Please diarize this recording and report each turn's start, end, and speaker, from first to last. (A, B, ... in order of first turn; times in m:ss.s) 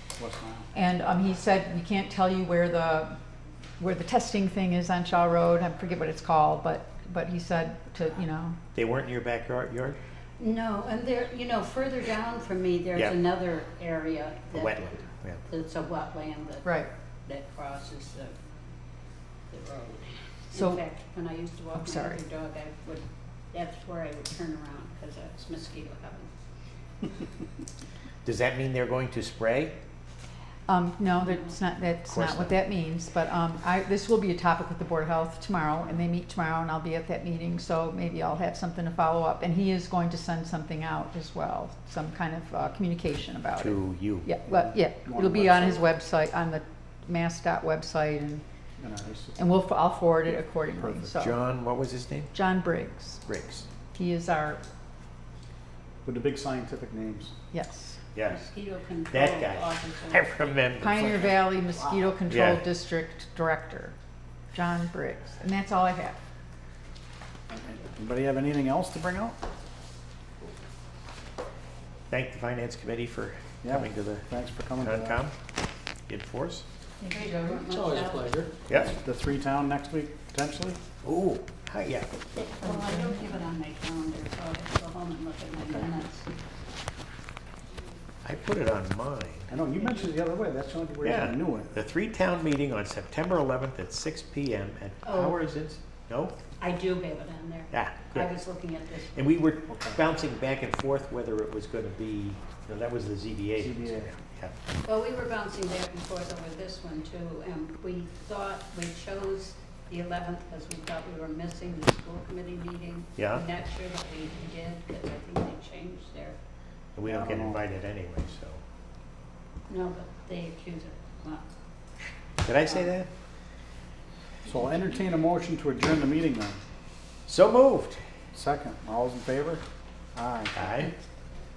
0:00.2-0:00.7 A
0:00.7-0:03.2 B
0:03.8-0:08.6 B
0:08.7-0:10.0 C
0:10.4-0:14.8 D
0:14.5-0:15.4 C
0:15.4-0:16.7 D
0:17.2-0:18.4 D
0:19.5-0:26.3 D
0:20.5-0:20.8 B
0:21.8-0:22.2 B
0:28.2-0:29.8 C
0:30.7-0:48.4 B
0:32.1-0:32.6 C
0:43.6-0:44.3 C
0:44.4-0:45.9 A
0:48.8-0:49.4 A
0:49.4-0:51.4 B
0:51.1-0:52.4 C
0:52.3-0:53.2 B
0:53.2-0:53.6 C
0:53.9-0:54.6 B
0:56.0-0:57.3 A
0:57.5-0:58.0 B
0:58.1-0:58.4 C
0:58.3-1:00.5 D
0:59.1-1:01.5 C
1:00.8-1:03.9 B
1:02.3-1:02.6 C
1:04.5-1:06.2 B
1:07.5-1:09.4 A
1:12.1-1:15.3 C
1:13.6-1:15.2 A
1:16.1-1:16.6 C
1:17.0-1:17.6 B
1:17.0-1:18.5 D
1:17.6-1:20.8 A
1:18.7-1:18.9 C
1:21.0-1:22.1 C
1:22.3-1:26.3 D
1:22.6-1:23.4 B
1:28.2-1:29.5 C
1:29.5-1:31.7 A
1:31.0-1:36.4 C
1:35.0-1:35.4 D
1:36.6-1:39.1 D
1:37.7-1:38.4 C
1:39.1-1:44.6 C
1:39.7-1:40.0 A
1:43.6-1:44.1 A
1:44.8-1:56.4 D
1:53.2-1:53.4 C
1:56.9-1:58.6 C
1:57.0-1:57.6 A
1:59.7-2:01.5 D
2:02.4-2:03.1 C
2:04.4-2:06.6 A
2:07.3-2:08.0 C
2:08.3-2:09.6 A
2:10.1-2:10.6 A
2:10.5-2:10.9 C